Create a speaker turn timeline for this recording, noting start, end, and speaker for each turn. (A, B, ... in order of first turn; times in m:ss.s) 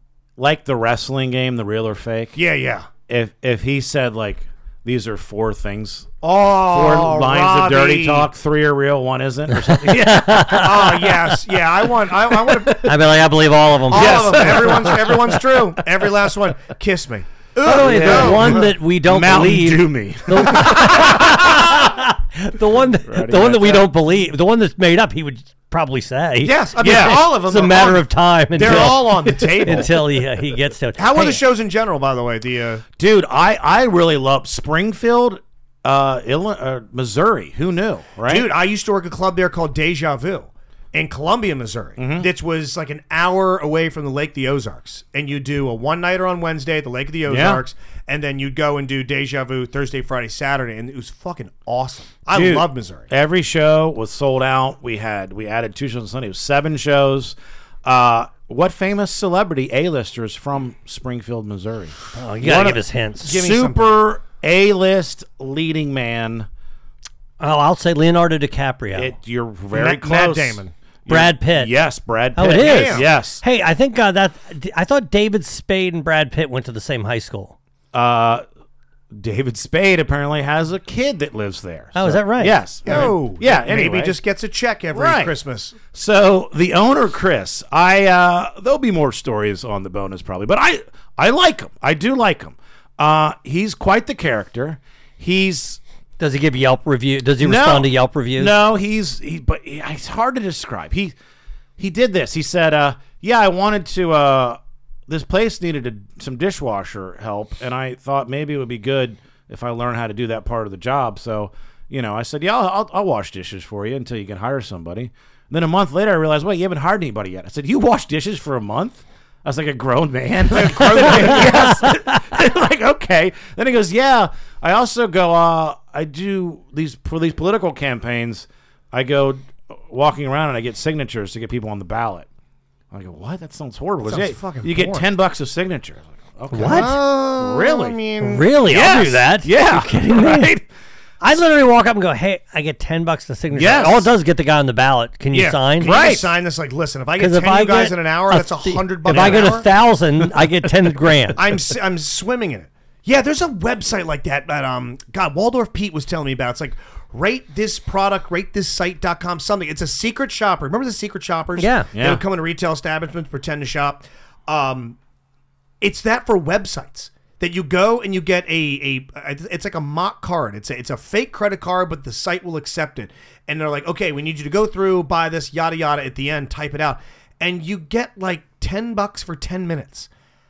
0:00.4-0:02.4 A
0:02.4-0:02.9 B
0:03.1-0:10.8 A
0:06.2-0:08.3 B
0:09.6-0:11.1 C
0:10.5-0:12.9 B
0:12.4-0:12.9 A
0:12.8-0:14.9 C
0:13.9-0:15.7 A
0:13.9-0:18.7 B
0:17.6-0:31.4 C
0:17.6-0:21.9 A
0:23.1-0:23.9 A
0:26.4-0:30.0 B
0:26.8-0:27.4 A
0:28.6-0:29.9 A
0:31.0-0:32.8 B
0:33.0-0:38.5 A
0:38.2-0:53.1 B
0:42.0-0:42.3 A
0:47.3-0:47.6 A
0:52.3-1:06.5 A
1:02.1-1:03.3 C
1:03.2-1:04.0 B
1:07.4-1:09.1 C
1:09.0-1:13.4 A
1:09.7-1:10.7 B
1:11.1-1:11.7 C
1:12.4-1:17.6 C
1:12.5-1:13.1 B
1:17.9-1:18.4 A
1:19.1-1:24.2 A
1:22.0-1:23.1 C
1:22.9-1:25.8 B
1:24.9-1:25.3 A
1:25.9-1:35.8 A
1:36.2-1:38.5 C
1:37.4-1:41.1 A
1:41.8-2:12.3 A
2:00.5-2:01.7 B
2:01.0-2:02.1 C
2:12.9-2:18.0 A
2:14.0-2:15.1 B
2:16.5-2:17.0 C
2:16.5-2:18.5 B
2:18.2-2:20.5 C
2:18.7-2:20.7 A
2:21.2-2:25.9 C
2:23.5-2:24.1 A
2:25.3-2:29.7 B
2:25.8-2:26.3 A
2:27.2-2:31.4 C
2:29.1-2:29.6 A
2:30.2-2:30.9 A
2:31.4-2:45.0 B
2:41.6-2:41.9 C
2:42.0-2:42.2 A
2:45.8-3:00.1 B